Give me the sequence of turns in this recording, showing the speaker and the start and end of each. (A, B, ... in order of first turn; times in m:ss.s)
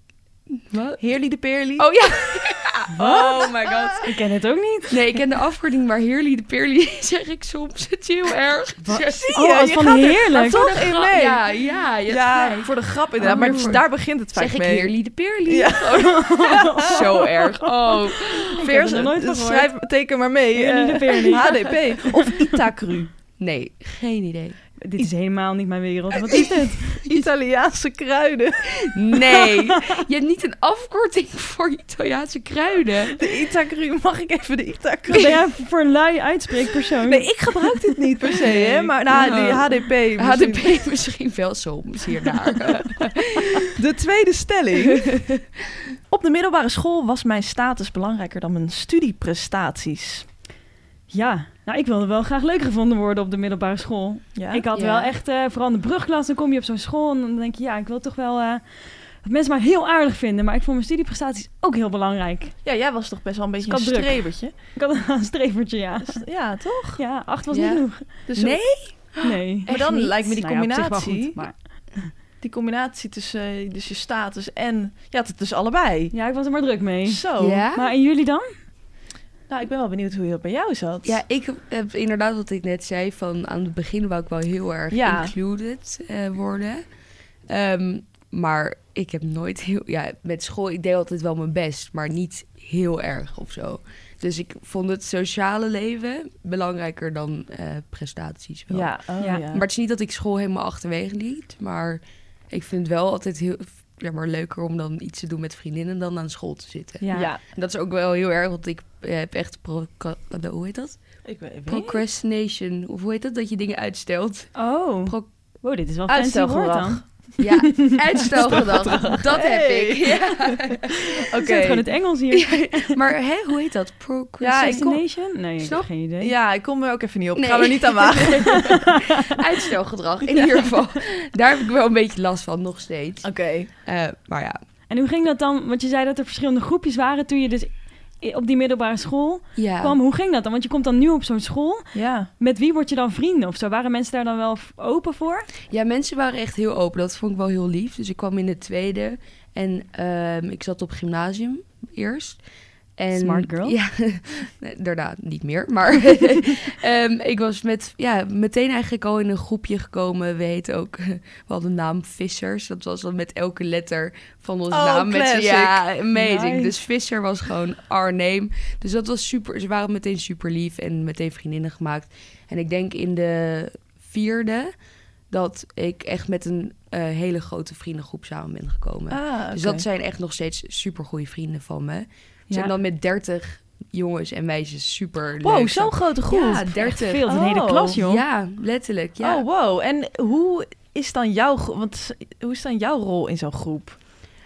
0:00.5-0:01.0 A
0:01.0-0:02.3 B
0:01.8-0:04.1 A
0:03.0-0:03.4 C
0:03.0-0:04.0 B
0:04.0-0:05.0 C
0:04.9-0:09.3 A
0:08.8-0:10.8 C
0:09.0-0:11.4 B
0:10.5-0:19.0 A
0:12.1-0:14.9 B
0:13.2-0:13.8 C
0:15.5-0:17.2 B
0:16.0-0:17.4 C
0:18.3-0:23.1 B
0:18.5-0:19.7 C
0:20.5-0:22.5 C
0:23.4-0:24.6 A
0:24.8-0:27.0 C
0:26.3-0:29.5 B
0:28.8-0:33.2 A
0:33.1-0:35.4 B
0:35.1-0:37.3 C
0:37.0-0:40.8 B
0:38.4-0:43.7 A
0:38.7-0:39.4 C
0:43.6-0:45.1 B
0:44.8-0:45.4 A
0:46.1-0:50.3 B
0:51.1-0:58.6 C
0:54.4-0:54.6 B
0:54.7-0:55.1 A
0:59.2-1:02.6 C
1:02.6-1:04.5 B
1:03.6-1:06.2 C
1:06.0-1:07.0 B
1:07.0-1:08.1 C
1:07.5-1:10.1 A
1:08.3-1:08.6 B
1:09.2-1:12.1 C
1:09.6-1:11.4 B
1:12.4-1:16.1 B
1:16.1-1:17.2 C
1:17.0-1:17.7 B
1:17.4-1:17.9 A
1:17.7-1:18.5 C
1:19.5-1:21.2 B
1:21.0-1:26.8 A
1:24.9-1:25.3 B
1:27.5-1:38.9 A
1:38.7-1:39.6 B
1:39.5-1:51.0 A
1:47.0-1:47.3 C
1:47.1-1:47.4 B
1:51.2-1:52.0 B
1:51.7-1:55.3 A
1:54.6-1:57.9 C
1:56.1-1:57.1 B
1:57.4-2:01.8 A
1:58.5-2:01.8 B
2:01.4-2:02.9 C
2:02.3-2:04.8 A
2:04.4-2:05.0 B
2:04.6-2:06.3 C
2:05.6-2:05.9 A
2:06.2-2:08.8 B
2:07.4-2:13.3 A
2:08.7-2:09.1 C
2:10.2-2:10.7 B
2:13.2-2:13.7 B
2:13.8-2:14.6 A
2:14.9-2:25.5 C
2:19.6-2:20.0 A
2:21.9-2:22.3 B
2:25.7-2:32.4 A
2:33.0-2:54.7 A
2:33.1-2:33.8 C
2:44.7-2:45.8 B
2:46.1-2:46.7 C
2:55.3-3:07.2 A
2:59.1-2:59.8 B
3:05.4-3:08.0 B
3:06.8-3:08.2 C
3:07.9-3:09.4 A
3:09.2-3:14.0 B